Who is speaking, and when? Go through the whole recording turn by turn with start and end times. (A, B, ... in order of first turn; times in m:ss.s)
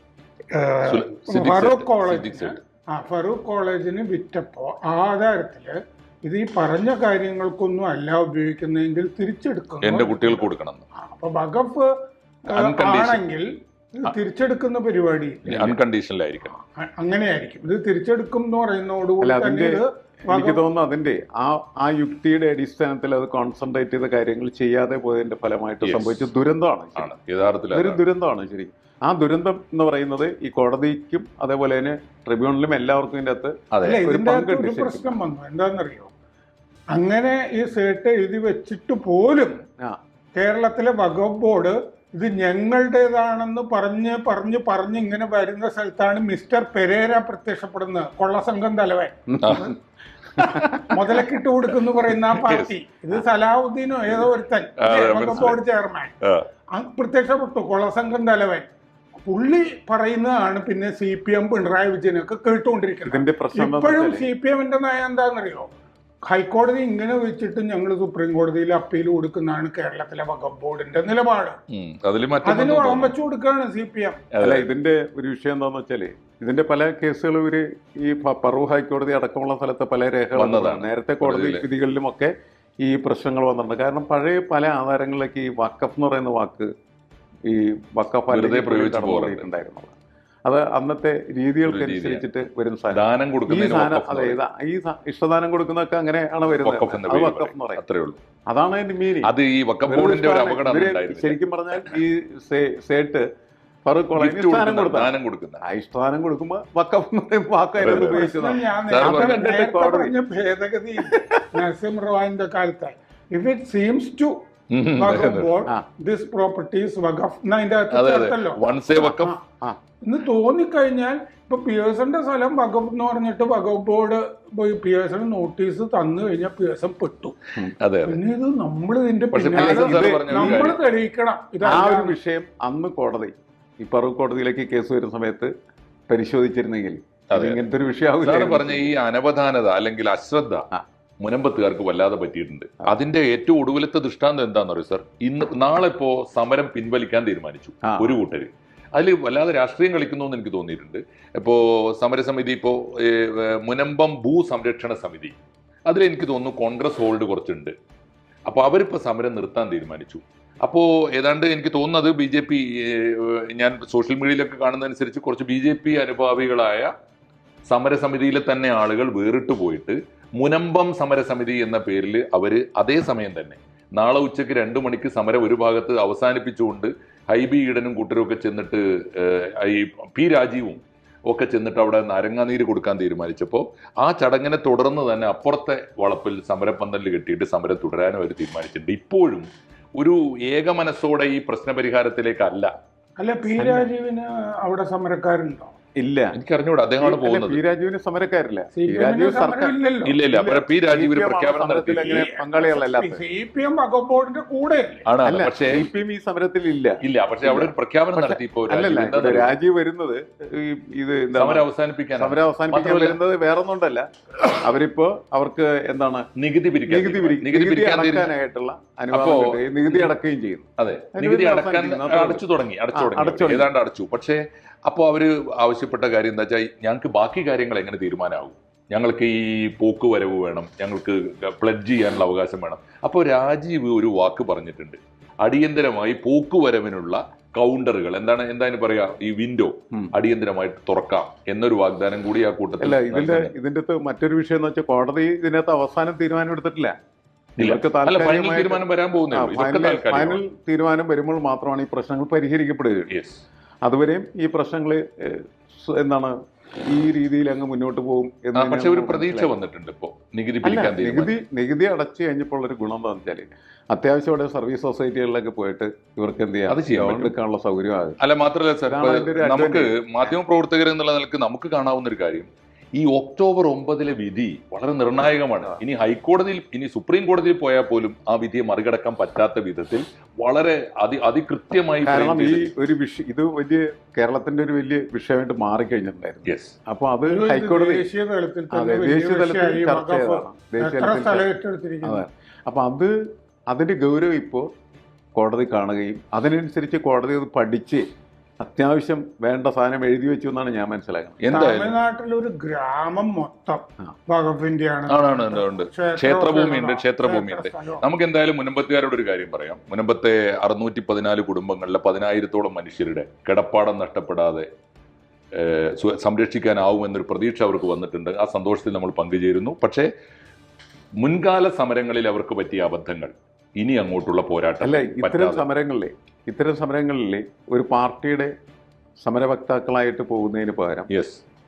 0:00.5-0:10.4 A
0:00.8-0:02.6 B
0:09.8-0:10.9 B
0:11.0-0:11.9 A
0:12.5-0:15.8 A
0:12.5-0:13.2 B
0:15.5-0:16.5 B
0:16.5-0:20.6 A
0:19.2-0:27.1 C
0:25.8-0:26.3 B
0:27.0-0:28.0 B
0:27.7-0:35.2 C
0:33.7-0:34.0 B
0:33.8-0:36.1 A
0:36.9-0:39.6 A
0:40.4-0:49.8 A
0:49.4-0:49.7 C
0:49.4-0:49.8 B
0:50.4-0:51.3 B
0:50.9-0:56.1 A
0:52.2-0:52.7 B
0:54.8-0:55.6 B
0:56.7-0:58.7 A
0:59.2-1:05.7 A
1:03.1-1:04.3 C
1:06.3-1:11.6 A
1:11.7-1:13.1 B
1:12.4-1:14.2 A
1:14.3-1:14.7 B
1:14.4-1:26.7 C
1:20.4-1:21.6 B
1:27.5-1:37.8 C
1:28.3-1:29.5 B
1:31.6-1:32.3 B
1:32.9-1:34.4 B
1:36.5-1:38.2 B
1:38.5-1:39.3 C
1:39.2-1:41.4 B
1:39.9-1:43.3 C
1:43.9-1:50.2 C
1:44.2-1:45.6 B
1:47.8-1:49.5 B
1:47.8-1:54.4 A
1:51.0-1:51.3 C
1:54.7-1:55.5 B
1:55.0-1:59.4 A
1:57.9-1:59.3 B
2:00.0-2:07.4 A
2:07.8-2:08.2 B
2:08.0-2:12.2 A
2:09.3-2:10.8 B
2:09.6-2:10.7 C
2:11.6-2:15.5 C
2:16.1-2:19.0 C
2:17.3-2:17.6 B
2:18.2-2:20.7 B
2:21.2-2:35.4 B
2:27.9-2:28.2 C
2:35.9-2:37.7 B
2:38.5-2:46.9 B
2:47.7-3:12.7 B
3:13.2-3:15.7 A
3:13.6-3:13.9 C
3:16.0-3:16.4 C
3:16.4-3:17.6 B
3:17.0-3:23.2 C
3:18.8-3:20.2 A
3:20.0-3:22.3 B
3:22.0-3:25.1 A
3:25.1-3:25.9 B
3:25.2-3:36.3 C
3:27.0-3:29.5 B
3:31.3-3:33.2 B
3:36.4-3:38.3 B
3:36.9-3:42.4 C
3:39.1-3:40.2 B
3:40.8-4:03.5 B
3:42.9-3:43.7 C
4:02.8-4:06.9 C
4:07.6-4:10.4 B
4:07.6-4:13.1 C
4:13.1-4:13.4 B
4:13.8-4:16.3 C
4:16.8-4:19.5 C
4:18.6-4:21.4 B
4:20.6-4:28.2 C
4:26.7-4:27.3 B
4:28.2-4:42.7 B
4:28.9-4:30.4 C
4:42.0-4:48.1 C
4:46.4-4:46.8 B
4:47.3-4:52.3 A
4:48.7-4:51.5 C
4:52.0-4:53.1 C
4:53.7-4:54.7 C
4:55.4-4:58.0 C
4:58.6-5:01.4 C
5:01.4-5:02.0 B
5:01.5-5:08.0 A
5:05.1-5:14.7 B
5:15.6-5:20.1 B
5:21.2-5:25.6 B
5:24.8-5:28.5 C
5:29.2-5:31.1 C
5:31.1-5:31.4 B